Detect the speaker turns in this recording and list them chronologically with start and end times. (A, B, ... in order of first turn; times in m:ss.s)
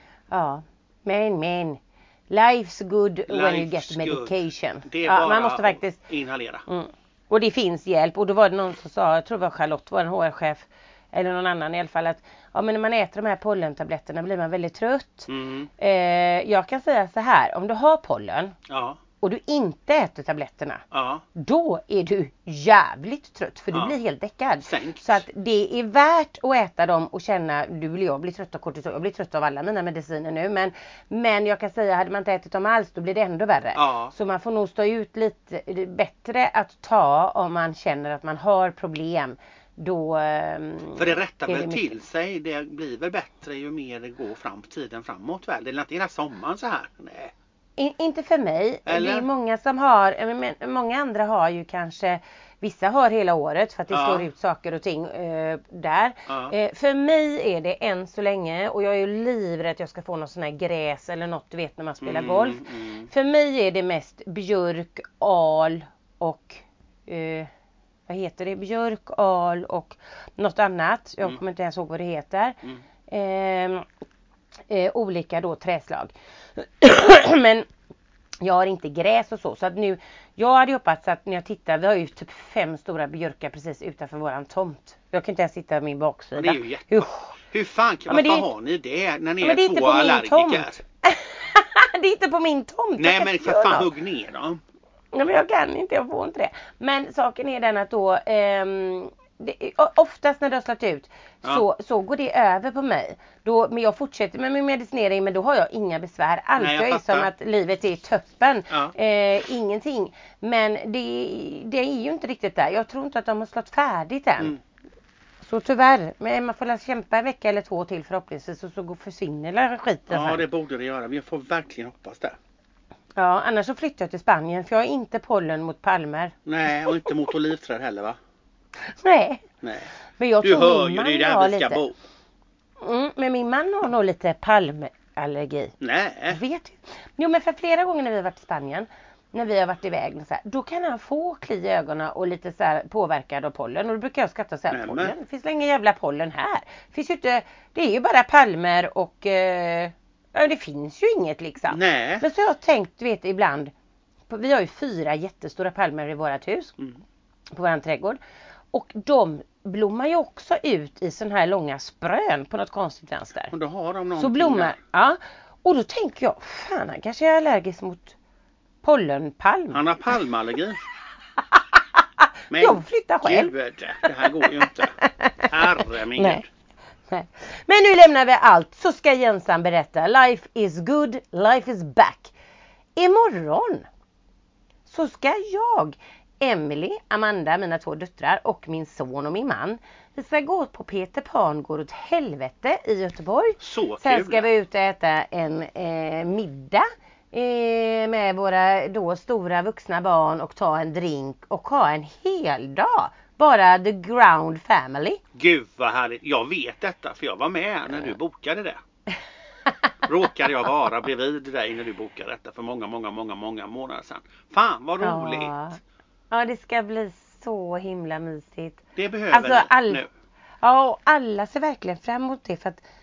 0:00.3-0:06.0 A
0:03.3-0:06.6 B
0:06.7-0:18.5 A
0:15.3-0:15.7 B
0:18.7-0:19.0 B
0:19.2-0:20.8 A
0:20.9-0:21.2 B
0:21.4-0:42.0 A
0:24.6-0:25.2 B
0:33.7-0:34.1 B
0:41.0-0:47.3 B
0:47.8-1:07.5 A
0:48.9-0:49.3 B
0:53.9-0:54.3 B
0:56.3-0:56.5 B
1:02.0-1:03.1 B
1:08.1-1:13.8 A
1:14.7-1:17.7 A
1:18.4-1:27.4 A
1:26.4-1:30.8 B
1:28.1-1:28.5 A
1:29.4-1:33.9 A
1:33.0-1:34.6 B
1:35.1-1:54.6 A
1:46.6-1:47.3 B
1:55.4-2:00.4 A
2:00.1-2:02.4 B
2:03.2-2:07.1 A
2:06.4-2:08.2 B
2:08.8-2:09.4 A
2:09.6-2:11.9 B
2:10.2-2:11.8 A
2:12.8-2:15.7 A
2:15.8-2:16.4 B
2:16.3-2:33.7 A
2:24.7-2:25.1 B
2:31.7-2:32.2 B
2:34.3-2:36.7 A
2:37.5-2:38.2 A
2:38.7-2:43.5 A
2:43.5-2:44.8 B
2:44.2-2:48.1 A
2:48.8-2:49.8 A
2:49.7-2:50.8 B
2:52.2-2:53.5 A
2:52.5-2:56.5 B
2:54.2-2:56.4 A
2:57.1-3:02.3 A
3:03.0-3:03.9 A
3:04.9-3:25.2 A
3:13.6-3:14.5 B
3:25.3-3:28.8 B
3:30.0-3:35.5 B
3:35.0-3:35.8 A
3:36.3-3:40.0 A
3:39.0-3:40.1 B
3:40.6-3:42.8 A